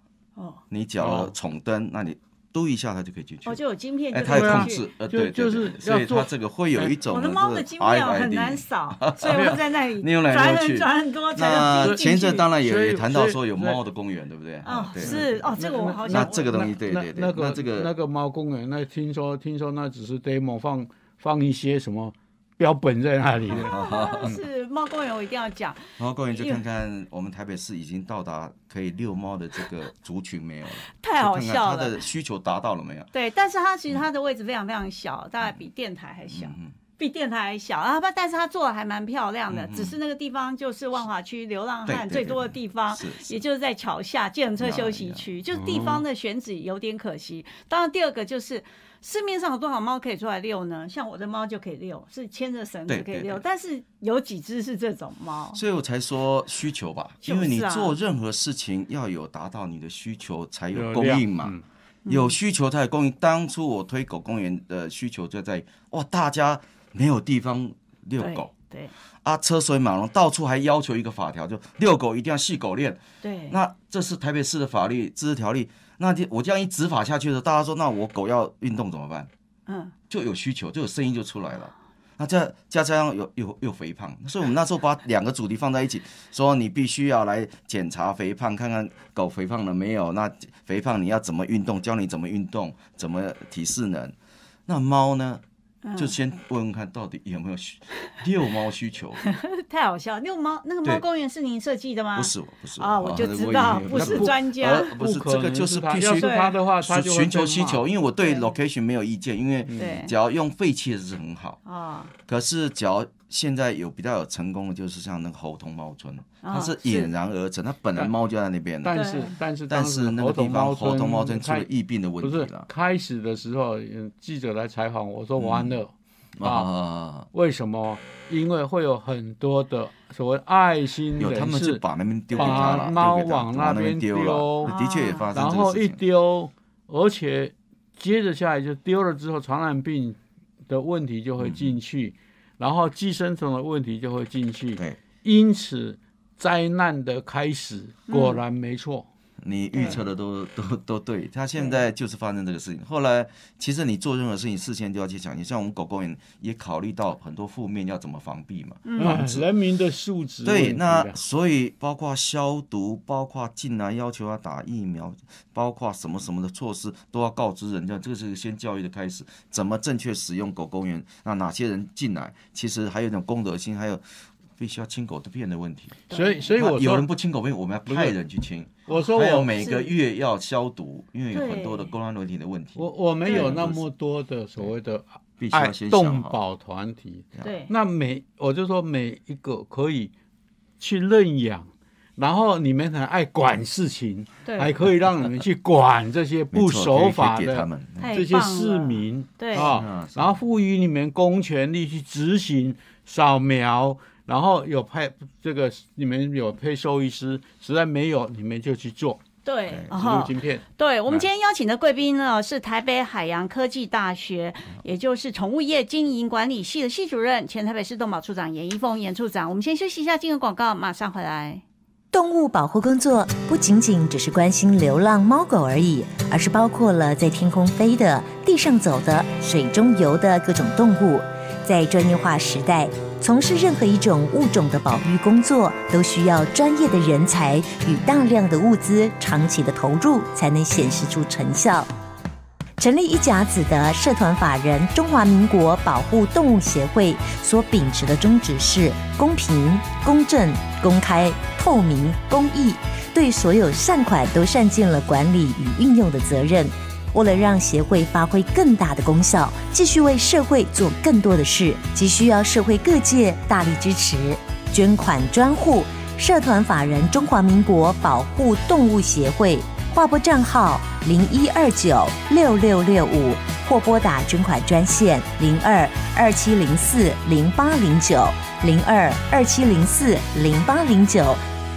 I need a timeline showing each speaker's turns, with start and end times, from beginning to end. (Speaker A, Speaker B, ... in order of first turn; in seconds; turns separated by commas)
Speaker A: 0.3-0.6, Speaker B: 0.7-15.5, Speaker C: 1.0-1.3, Speaker A: 3.4-4.8, Speaker C: 4.3-6.9, Speaker A: 7.0-12.5, Speaker C: 9.2-9.6, Speaker C: 11.6-13.8, Speaker A: 14.6-16.7, Speaker C: 15.0-23.8, Speaker B: 16.0-17.9, Speaker B: 23.5-24.4, Speaker A: 23.7-26.6, Speaker B: 26.0-33.1, Speaker A: 30.9-32.0, Speaker A: 33.1-55.6, Speaker B: 36.3-36.7, Speaker B: 39.5-40.0, Speaker B: 41.9-43.4, Speaker B: 44.6-46.0, Speaker B: 52.9-53.4, Speaker B: 55.5-68.5, Speaker A: 57.2-58.0, Speaker C: 60.7-61.6, Speaker A: 62.0-62.4, Speaker A: 68.2-68.9, Speaker B: 69.2-79.3, Speaker A: 73.2-73.6, Speaker A: 79.7-79.9, Speaker B: 80.1-94.1, Speaker B: 94.7-95.4, Speaker A: 95.8-96.1, Speaker B: 96.0-99.2, Speaker A: 99.2-104.9, Speaker B: 102.2-111.6, Speaker C: 103.9-104.4, Speaker C: 104.9-107.8, Speaker A: 106.2-106.5, Speaker A: 108.2-108.5, Speaker C: 109.7-110.0, Speaker A: 109.8-110.1, Speaker A: 111.6-112.1, Speaker B: 112.2-119.0, Speaker A: 116.4-117.1, Speaker C: 118.8-121.7, Speaker A: 118.9-119.3, Speaker B: 119.7-122.7, Speaker C: 122.2-126.7, Speaker B: 125.4-125.8, Speaker B: 126.4-127.3, Speaker C: 127.3-131.8, Speaker B: 131.2-136.0, Speaker A: 132.3-132.9, Speaker C: 132.3-134.7, Speaker A: 134.6-135.3, Speaker C: 135.3-149.1, Speaker B: 141.4-141.7, Speaker A: 148.1-148.4, Speaker B: 149.4-159.5, Speaker A: 149.7-150.0, Speaker A: 158.8-159.2, Speaker C: 159.0-161.2, Speaker B: 160.4-174.0, Speaker B: 174.6-183.8, Speaker A: 176.1-176.4, Speaker C: 176.1-177.1, Speaker C: 177.9-178.2, Speaker C: 178.9-179.6, Speaker A: 179.6-179.9, Speaker A: 181.3-181.9, Speaker C: 182.8-190.1, Speaker A: 183.2-183.7, Speaker B: 185.4-186.4, Speaker A: 187.4-187.7, Speaker C: 190.8-209.2, Speaker A: 194.4-194.7, Speaker B: 196.5-198.2, Speaker A: 198.0-199.7, Speaker B: 199.5-200.4, Speaker A: 209.4-221.6, Speaker B: 209.7-209.9, Speaker C: 209.9-211.2, Speaker D: 222.1-241.9, Speaker D: 242.8-281.4